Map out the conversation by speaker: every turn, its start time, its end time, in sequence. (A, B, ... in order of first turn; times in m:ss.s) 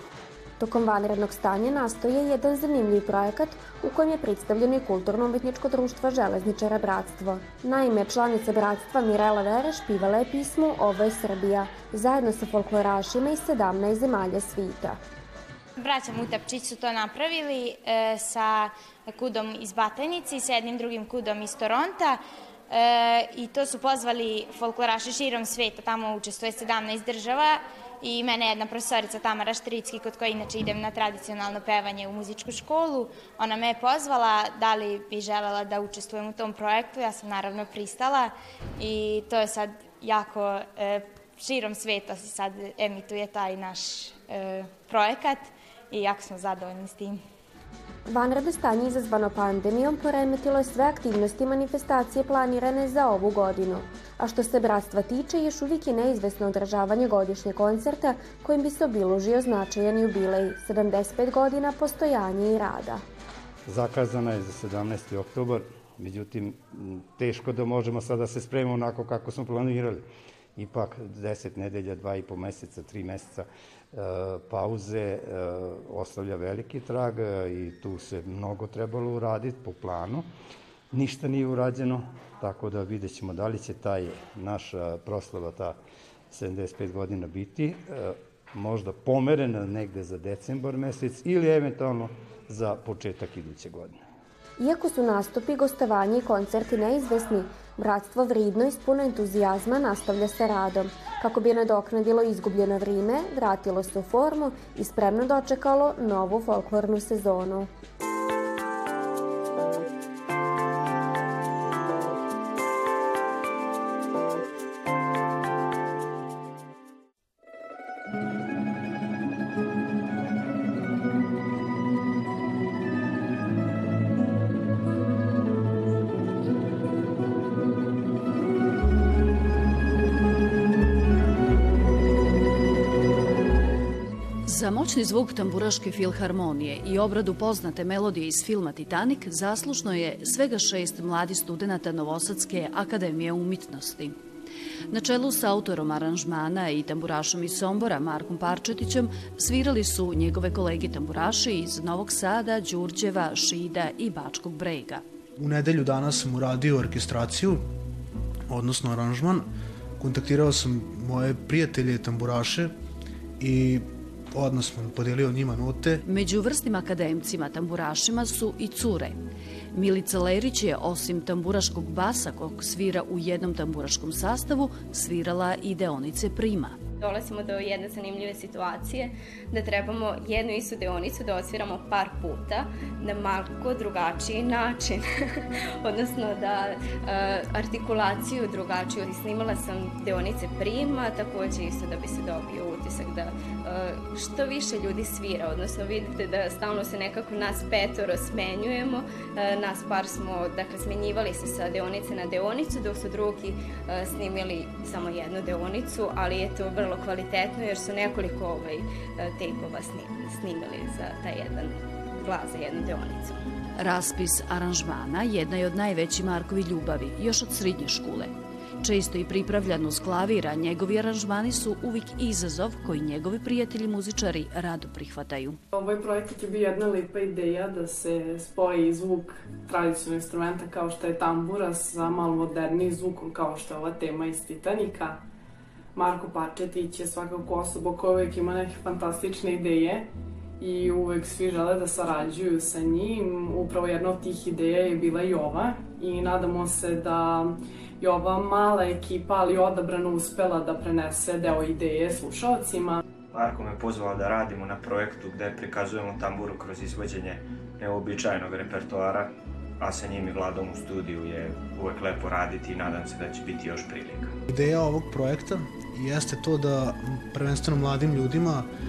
0:00.6-0:15.0 A
0:15.8-0:47.2 B
0:48.1-1:03.0 A
1:03.7-1:10.0 C
1:10.6-1:20.3 C
1:20.9-1:25.8 C
1:26.3-1:34.0 C
1:34.6-1:47.7 A
2:14.4-2:24.2 D
2:24.9-2:35.0 D
2:35.4-2:37.7 E
2:38.5-2:42.8 E
2:43.4-2:46.0 E
2:46.1-2:49.2 D
2:49.7-2:56.8 D
2:57.0-3:33.4 F
3:33.8-3:45.6 D
3:45.7-3:55.2 G
3:56.0-4:13.0 G
4:13.3-4:24.4 H
4:24.5-4:28.7 E